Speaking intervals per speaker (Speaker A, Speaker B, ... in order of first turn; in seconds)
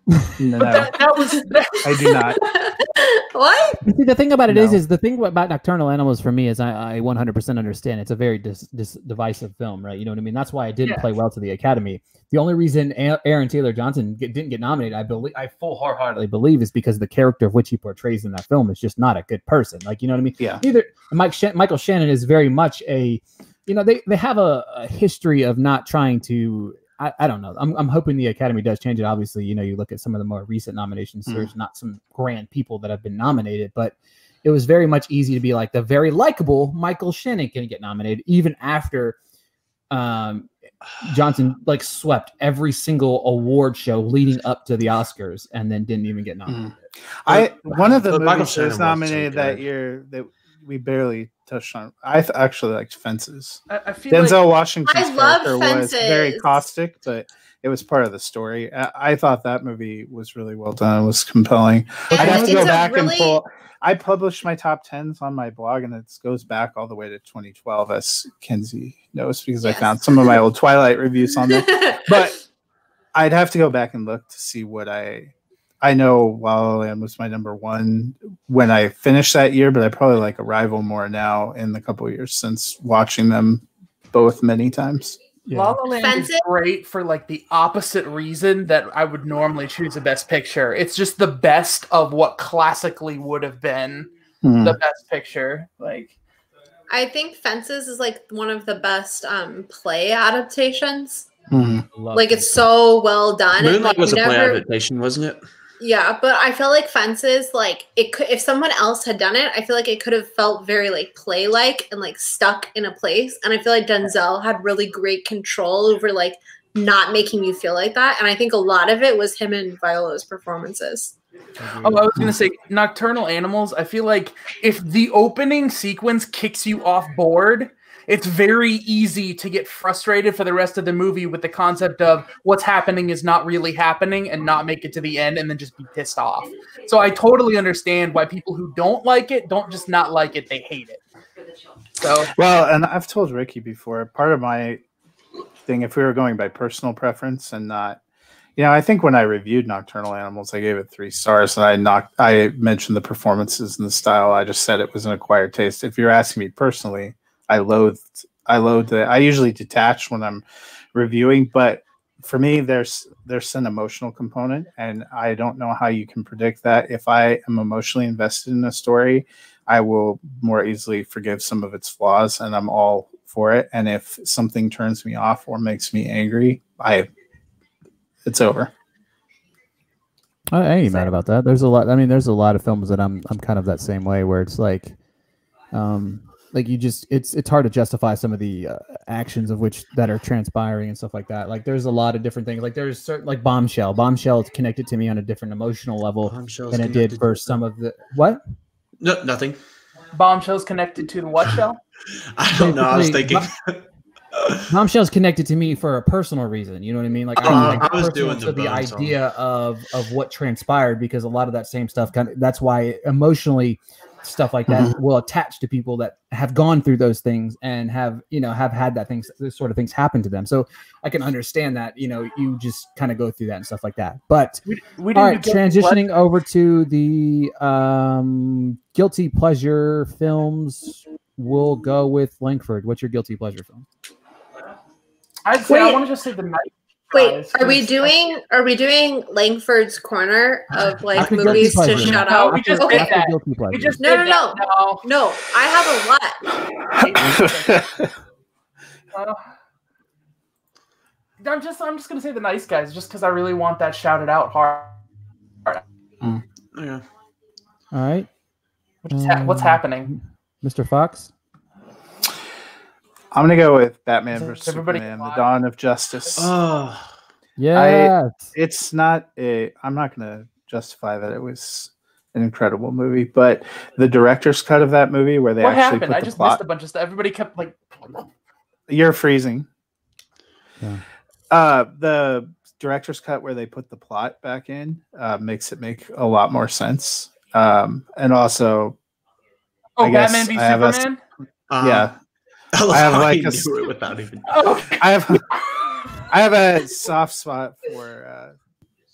Speaker A: 0.4-1.0, 1.8-2.4, 4.5-4.8, 46.5-72.4, 73.1-85.2, 94.4-94.8, 101.5-101.8, 142.3-144.8, 145.7-148.0, 148.6-177.1, 178.2-178.7, 214.7-214.9, 246.8-248.1, 263.3-266.5, 267.7-276.6, 278.9-279.7, 281.5-288.9, 290.0-291.0, 291.8-292.1, 292.9-293.7, 295.0-295.4, 296.2-298.5
Speaker B: 0.6-2.2, 53.7-54.4, 62.1-62.4, 85.5-96.1, 121.8-141.0, 142.0-142.3, 200.1-201.8, 224.6-226.1, 235.4-238.1, 241.9-245.0, 246.9-247.9, 249.1-249.4, 251.4-255.0, 259.0-260.1, 264.6-265.4, 275.6-278.3, 290.0-291.2, 294.5-295.1
Speaker C: 2.0-3.8, 54.9-56.6, 62.1-63.4, 69.6-70.4, 71.5-72.2, 86.0-86.4, 96.9-101.3, 102.1-104.6, 105.8-121.1, 235.6-236.1, 237.1-243.1, 244.0-246.4
Speaker D: 3.8-39.2, 39.9-40.5, 41.0-46.7, 85.5-85.8, 101.7-102.7, 121.6-122.3, 180.5-184.9, 185.7-198.4, 202.5-203.5, 204.7-233.8, 241.1-244.0, 257.9-258.3, 259.1-261.3, 267.6-268.5
Speaker E: 47.3-49.6, 103.5-105.4, 196.2-197.6, 199.0-199.6, 202.3-204.6, 207.4-209.1, 256.7-257.0, 266.4-267.1, 291.7-292.1, 292.7-294.7